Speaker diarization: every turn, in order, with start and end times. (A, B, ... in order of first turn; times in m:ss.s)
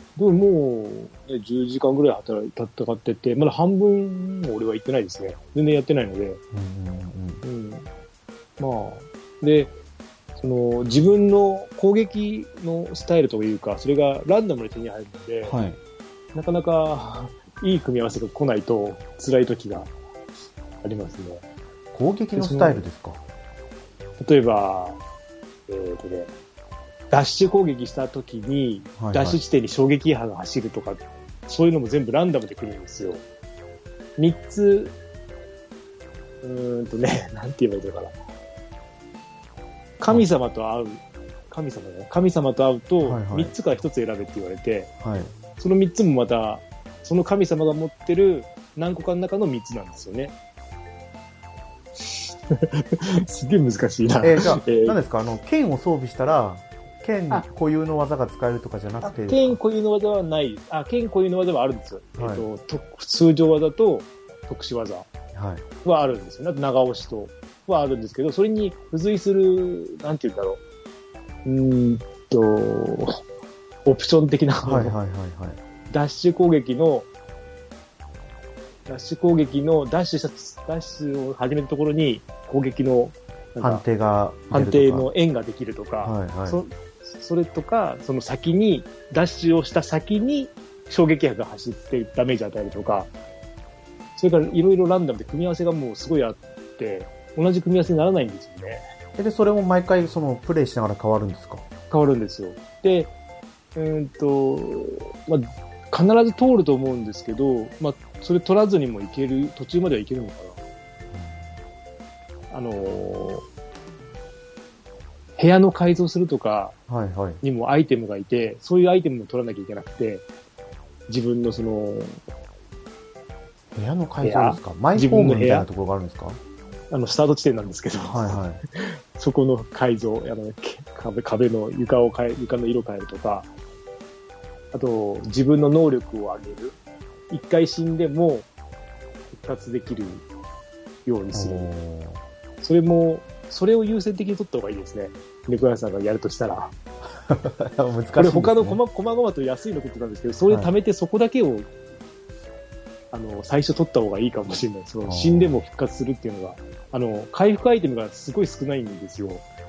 0:00.2-0:06.4 A
0:06.5-0:07.4 B
0:07.4-0:07.9 A
0:08.6-0:09.7 A
0:10.4-0:15.6 A
0:15.4-0:15.8 B
0:16.4-0:19.9 A
0:20.8-0:21.4 A
0:21.9-0:23.2 B
0:22.4-0:22.8 A
0:24.2-0:25.0 A
0:25.7-0:26.3 A
0:27.1-0:33.2 A
0:29.0-0:29.4 B
0:34.2-0:35.0 A
0:36.4-0:38.2 A
0:40.0-0:44.9 A
0:43.0-0:43.5 B
0:45.0-0:45.3 B
0:45.6-0:50.3 A
0:52.0-0:55.0 A
0:54.2-0:59.6 B
0:59.0-1:05.1 A
1:02.2-1:02.5 B
1:05.3-1:05.6 B
1:05.8-1:10.6 A
1:11.4-1:13.2 A
1:13.8-1:15.0 A
1:14.6-1:15.6 B
1:15.9-1:17.1 A
1:18.9-1:23.8 A
1:23.6-1:25.1 B
1:24.5-1:33.1 A
1:26.0-1:26.6 B
1:34.2-1:38.8 A
1:39.2-1:41.6 B
1:41.9-1:43.1 A
1:43.8-1:50.6 A
1:51.1-1:51.6 B
1:52.5-1:53.4 A
1:55.4-1:56.8 A
1:56.9-1:57.4 B
1:57.4-2:00.3 A
2:01.1-2:02.2 A
2:03.7-2:06.4 B
2:04.2-2:05.7 A
2:06.9-2:13.5 A
2:08.1-2:08.6 B
2:14.7-2:16.8 A
2:17.3-2:18.5 A
2:19.3-2:20.2 A
2:21.0-2:21.7 A
2:21.3-2:22.2 B
2:22.6-2:26.7 A
2:27.2-2:28.8 B
2:28.2-2:31.7 A
2:33.1-2:39.4 A
2:35.0-2:35.6 B